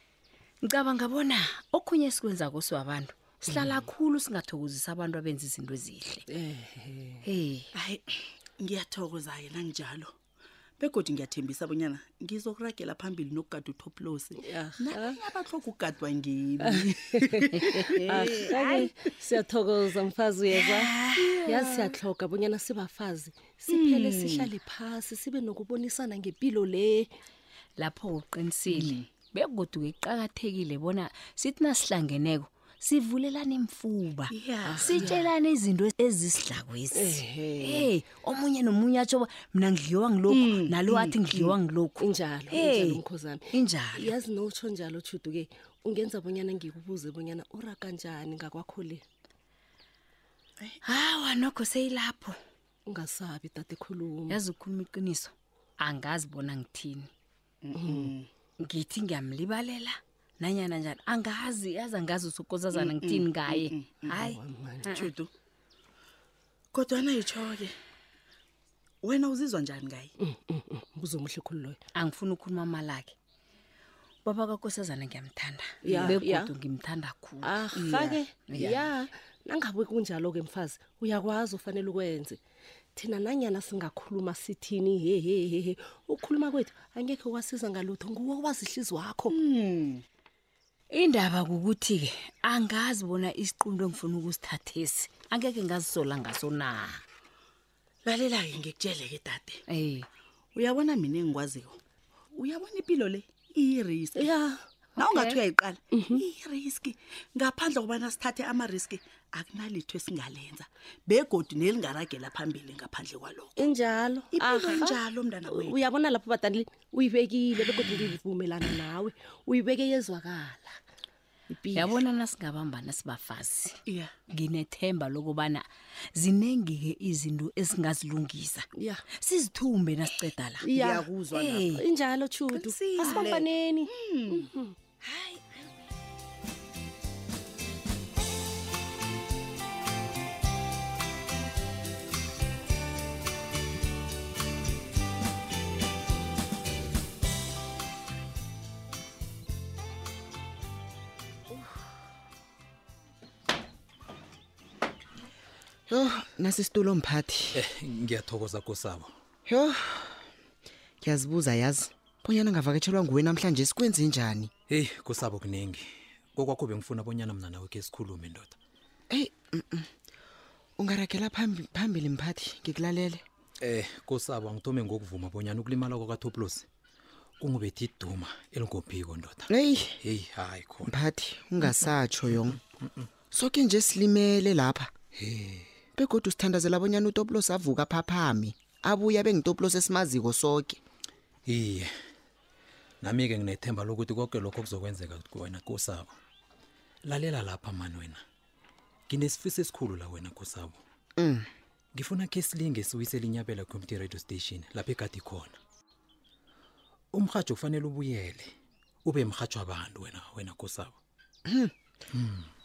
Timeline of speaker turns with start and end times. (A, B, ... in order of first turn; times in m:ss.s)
0:00.6-0:06.3 A
0:03.5-0:03.8 B
0:06.3-0:07.2 B
0:07.2-0:07.7 A
0:07.7-0:10.1 C
0:10.8-0:18.3 C
0:14.4-0:15.2 B
0:16.6-0:27.1 B
0:17.6-0:18.9 A
0:20.9-0:21.8 A
0:23.7-0:24.5 C
0:27.8-0:44.1 A
0:28.7-0:29.0 C
0:34.3-0:35.2 C
0:34.7-0:35.0 B
0:36.9-0:37.5 B
0:37.6-0:37.9 C
0:40.3-0:41.5 C
0:42.0-0:49.0 B
0:50.8-0:52.4 A
0:52.9-0:54.4 B
0:54.3-0:57.1 A
0:57.7-0:58.3 C
0:57.8-0:58.0 B
0:58.6-1:05.1 A
1:02.7-1:04.0 C
1:04.1-1:05.0 B
1:05.0-1:05.3 C
1:06.7-1:07.8 C
1:09.0-1:10.1 C
1:10.2-1:11.8 B
1:12.0-1:13.2 A
1:14.2-1:18.9 A
1:15.8-1:16.5 B
1:17.4-1:22.4 B
1:23.0-1:29.4 B
1:29.3-1:30.0 C
1:30.9-1:37.0 A
1:38.0-1:39.6 C
1:39.7-1:40.1 A
1:40.6-1:41.8 C
1:42.3-1:44.3 C
1:44.2-1:44.7 B
1:45.0-1:45.4 A
1:45.0-1:53.6 C
1:45.9-1:46.3 B
1:53.6-2:00.8 B
1:54.3-1:55.8 C
2:01.5-2:02.0 B
2:01.7-2:08.7 A
2:03.9-2:04.1 C
2:08.8-2:09.0 B
2:09.2-2:10.7 A
2:10.6-2:14.7 B
2:11.3-2:11.8 A
2:12.5-2:13.4 A
2:13.9-2:14.4 C
2:35.9-2:37.6 D
2:37.5-2:39.1 E
2:39.5-2:40.2 D
2:41.0-2:44.5 D
2:44.7-2:48.6 E
2:49.1-2:49.9 D
2:50.8-2:53.2 D
2:53.6-2:56.7 E
2:57.4-2:59.5 E
2:59.5-3:00.0 D
3:00.0-3:00.9 E
3:00.9-3:02.6 D
3:02.3-3:03.1 E
3:03.3-3:04.9 D
3:05.2-3:05.7 E
3:06.0-3:10.8 D
3:11.5-3:11.9 E
3:13.0-3:16.1 E
3:17.1-3:18.2 E
3:19.1-3:20.8 E
3:21.2-3:21.5 D
3:21.9-3:25.6 E
3:27.1-3:28.5 E
3:29.0-3:31.0 E
3:31.5-3:31.7 D
3:32.1-3:32.5 E